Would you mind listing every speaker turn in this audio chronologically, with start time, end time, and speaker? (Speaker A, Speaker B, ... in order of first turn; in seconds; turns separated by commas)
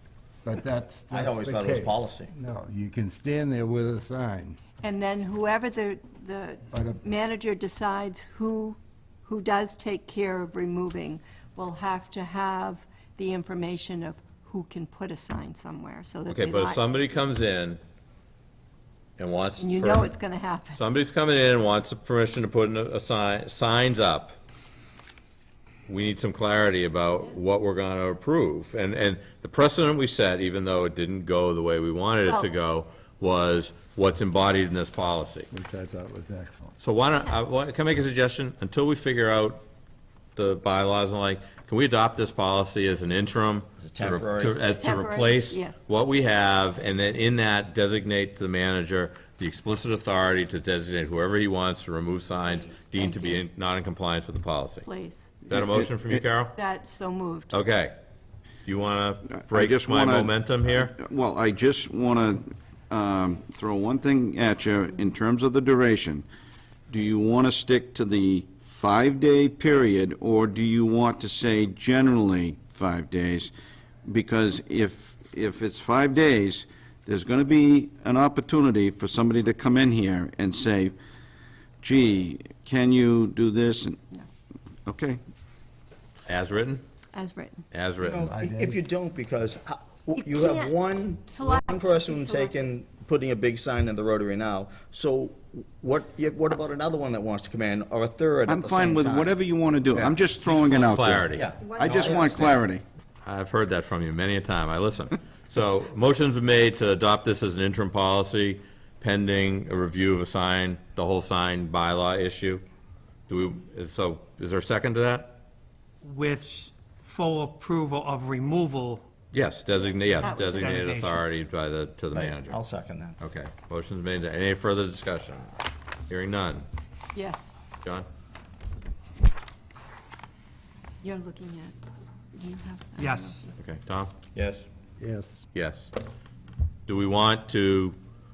Speaker A: 0.4-4.6, Speaker B: 1.1-2.3, Speaker C: 4.8-16.9, Speaker A: 6.7-7.0, Speaker D: 16.3-17.8, Speaker D: 19.2-20.1, Speaker C: 19.6-20.8, Speaker D: 20.8-24.4, Speaker D: 25.9-35.5, Speaker A: 35.5-36.8, Speaker D: 36.8-39.6, Speaker D: 40.4-54.9, Speaker B: 43.8-44.6, Speaker C: 44.8-45.9, Speaker C: 52.5-53.4, Speaker C: 54.8-55.4, Speaker D: 55.4-56.5, Speaker E: 55.5-56.2, Speaker C: 56.5-57.5, Speaker D: 57.5-58.0, Speaker D: 58.6-61.0, Speaker E: 59.3-66.2, Speaker E: 66.9-73.5, Speaker E: 74.0-81.0, Speaker E: 81.8-84.0, Speaker E: 84.9-85.2, Speaker D: 86.3-86.8, Speaker C: 87.2-87.6, Speaker D: 87.7-88.3, Speaker B: 88.0-99.4, Speaker A: 88.2-88.8, Speaker C: 90.3-90.7, Speaker C: 91.3-92.5, Speaker E: 98.5-101.3, Speaker D: 100.5-102.5, Speaker B: 101.3-102.6, Speaker C: 101.6-102.4, Speaker E: 101.8-102.8, Speaker D: 103.2-112.6, Speaker D: 113.3-115.4, Speaker F: 116.0-119.1, Speaker D: 119.3-122.6, Speaker C: 120.2-120.8, Speaker F: 120.5-121.2, Speaker B: 122.1-123.2, Speaker D: 123.2-125.5, Speaker D: 126.1-126.7, Speaker C: 127.2-127.7, Speaker C: 131.0-131.8, Speaker C: 132.3-133.5, Speaker F: 133.0-133.4, Speaker D: 133.6-134.1, Speaker B: 134.3-134.7, Speaker A: 135.0-135.5, Speaker D: 135.5-135.9, Speaker D: 136.9-138.0